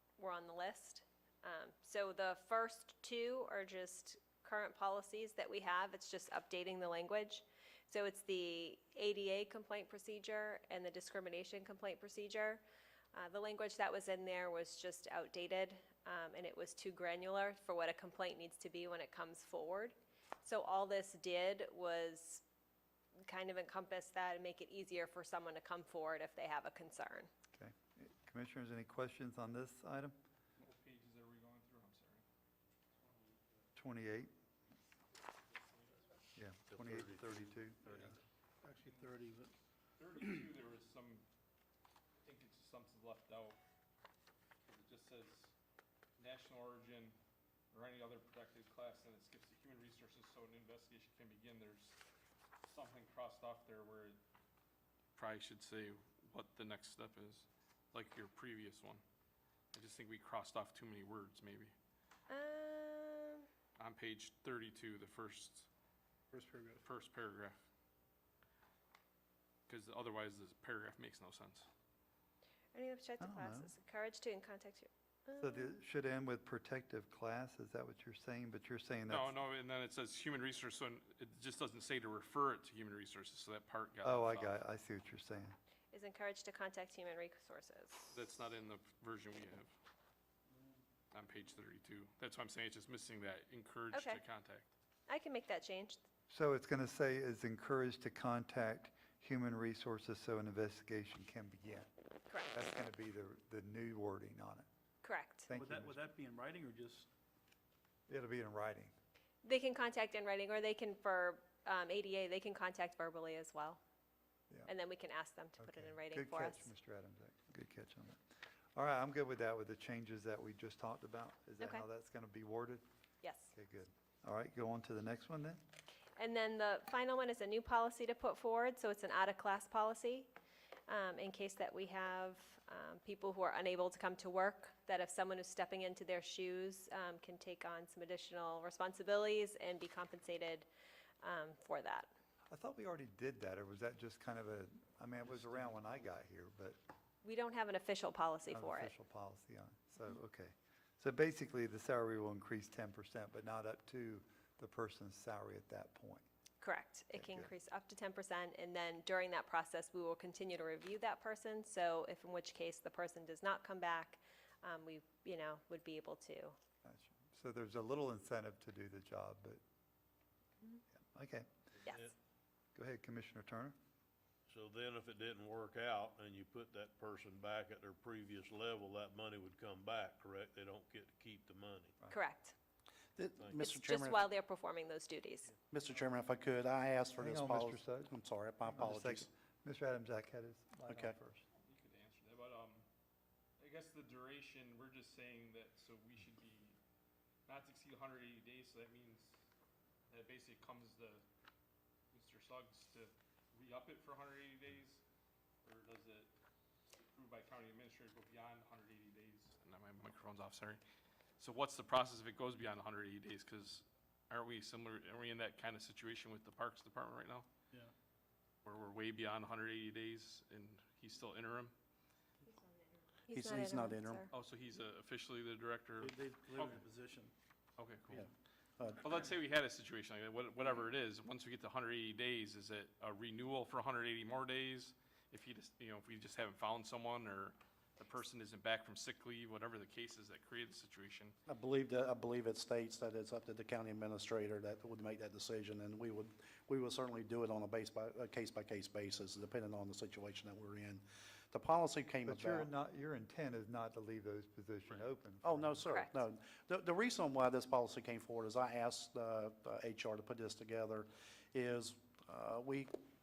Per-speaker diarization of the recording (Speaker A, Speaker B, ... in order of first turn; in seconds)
Speaker A: 0.2-12.6, 13.1-22.4, 23.3-27.3, 62.3-63.5, 72.7-75.8, 85.9-88.2, 93.9-94.2, 95.1-96.0, 105.0-105.5, 109.4-113.8, 114.7-116.7, 121.6-121.8, 123.2-123.5, 126.2-130.3, 130.9-140.7, 141.2-142.1, 147.2-148.9, 156.6-166.6, 182.1-182.6, 183.5-185.5, 223.3-224.3, 255.9-256.1
Speaker B: 27.5-30.2, 33.8-34.3, 36.4-38.1, 73.2-73.7, 75.4-79.3, 84.0-85.6, 96.3-101.9, 102.4-104.7, 105.5-106.0, 108.1-108.9, 115.6-118.2, 118.8-122.8, 123.5-125.6, 142.5-146.8, 148.5-156.2, 157.1-157.5, 166.8-169.6, 171.0-171.5, 172.8-173.8, 187.2-191.4, 252.2-255.9
Speaker C: 30.6-32.2, 37.9-38.1, 40.0-41.2, 42.2-43.6, 44.6-45.5, 46.2-47.2, 47.7-52.0, 52.6-54.2, 55.2-59.0, 59.7-61.7, 63.8-65.7, 66.8-67.6, 69.7-71.7, 79.1-84.6, 88.1-89.7, 91.1-94.7, 191.6-192.8, 193.6-196.8, 197.5-199.4, 200.1-201.2, 202.1-205.0, 205.6-206.3, 206.9-210.8, 211.4-217.5, 218.7-221.7, 224.3-226.8, 227.8-228.3, 229.0-241.3
Speaker D: 36.7-37.6, 171.8-172.1, 174.5-181.9, 183.4-183.6
Speaker E: 38.6-39.5, 66.3-66.8, 105.5-107.1, 226.0-227.3
Speaker F: 183.2-184.2, 185.7-189.3, 190.9-191.2, 223.3-224.2, 228.1-229.0, 241.5-252.7, 255.4-262.9